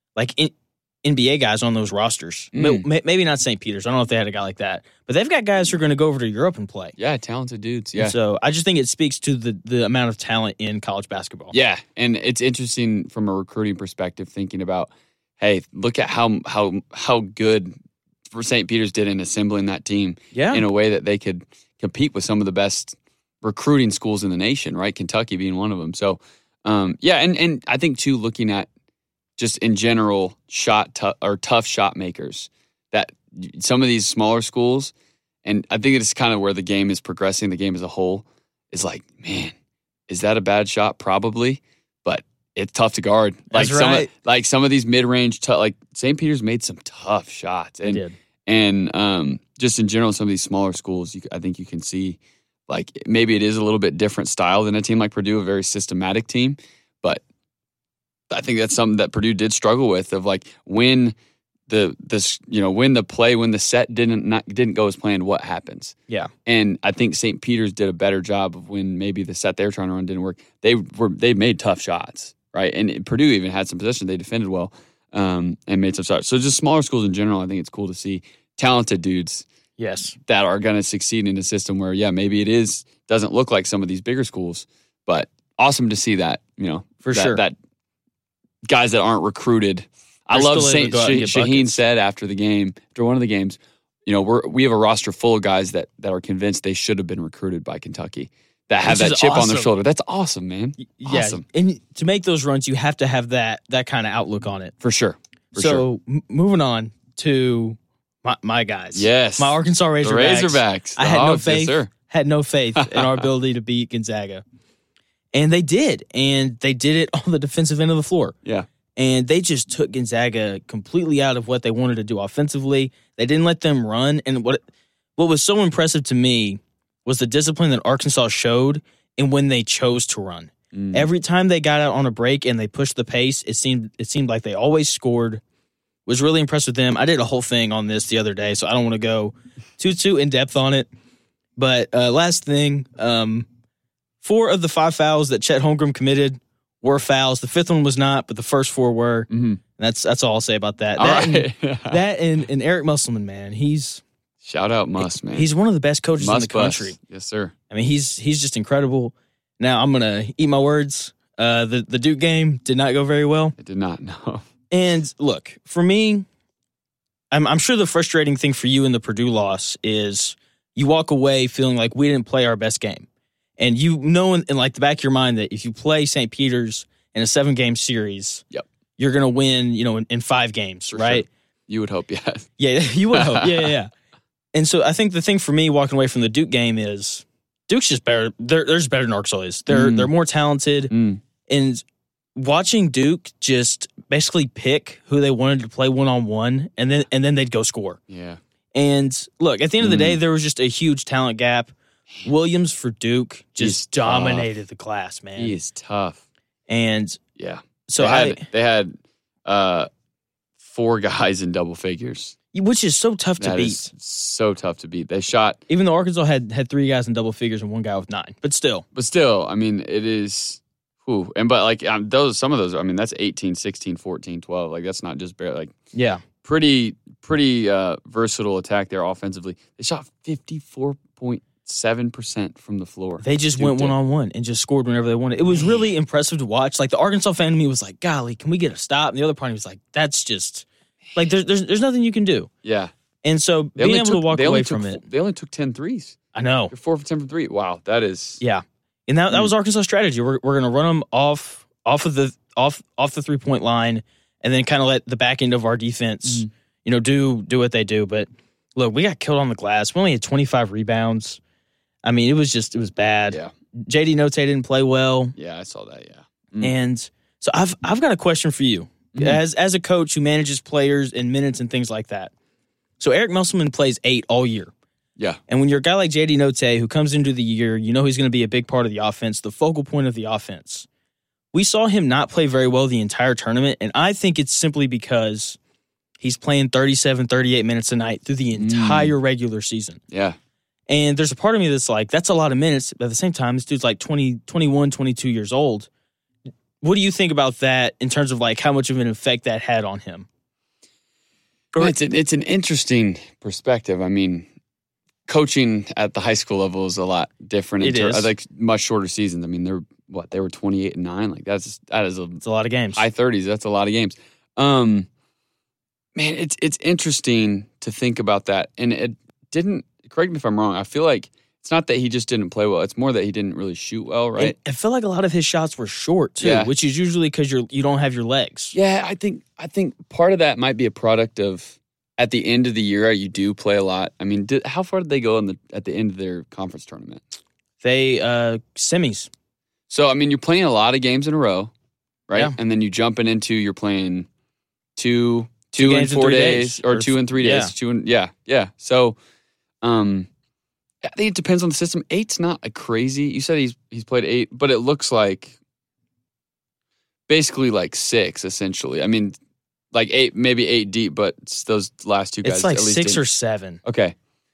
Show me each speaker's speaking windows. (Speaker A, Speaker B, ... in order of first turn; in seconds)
Speaker A: 0.1-7.0, 8.0-11.5, 20.3-20.6, 43.5-44.1, 47.9-48.1, 79.8-80.2, 87.0-87.4, 90.3-91.8, 98.8-99.7, 100.8-104.7, 105.5-114.4, 115.3-118.3, 119.0-124.6, 125.2-135.4, 136.1-140.9, 141.6-143.4, 144.2-154.0, 155.0-157.0, 157.7-163.5, 164.7-166.2, 167.3-173.1, 173.6-178.4, 179.0-181.3, 182.6-183.9, 184.5-190.9, 191.5-191.8, 192.3-198.0, 198.7-201.7, 202.2-205.5, 206.7-207.2, 207.9-208.4, 212.5-213.9, 215.7-218.8, 225.9-226.2, 233.2-242.5, 243.2-245.0, 246.3-246.7, 248.4-261.4, 262.0-265.3, 266.6-272.3, 273.0-274.7, 275.5-280.9, 281.5-285.6, 286.2-290.0, 290.9-295.9, 296.8-300.3, 307.8-308.3, 312.4-313.1, 324.4-328.7, 337.8-339.3, 345.8-347.7, 362.4-363.8
Speaker B: 2.5-2.8, 7.0-8.2, 11.5-17.7, 18.3-28.7, 29.4-34.9, 35.4-39.5, 40.1-57.2, 58.3-61.1, 61.7-79.5, 80.2-87.5, 88.7-101.4, 104.8-105.8, 108.9-111.9, 112.8-113.2, 130.7-131.1, 149.3-149.6, 151.0-152.0, 154.4-155.5, 156.2-157.5, 163.6-164.4, 180.9-182.5, 183.1-183.7, 189.7-190.1, 190.9-191.2, 198.1-198.4, 199.8-200.2, 203.6-204.5, 205.4-206.2, 207.3-208.9, 209.4-209.9, 210.6-212.3, 213.4-215.6, 218.9-225.7, 226.4-233.9, 242.6-242.9, 243.8-246.2, 246.7-248.4, 265.4-266.7, 269.1-269.4, 288.5-289.1, 290.1-290.4, 301.8-304.5, 305.3-312.4, 312.9-315.1, 316.1-324.5, 326.4-326.7, 328.7-337.2, 339.9-341.7, 342.3-344.3, 344.9-349.2, 349.8-350.3, 351.0-355.6, 357.3-359.4, 359.9-363.2, 363.8-364.1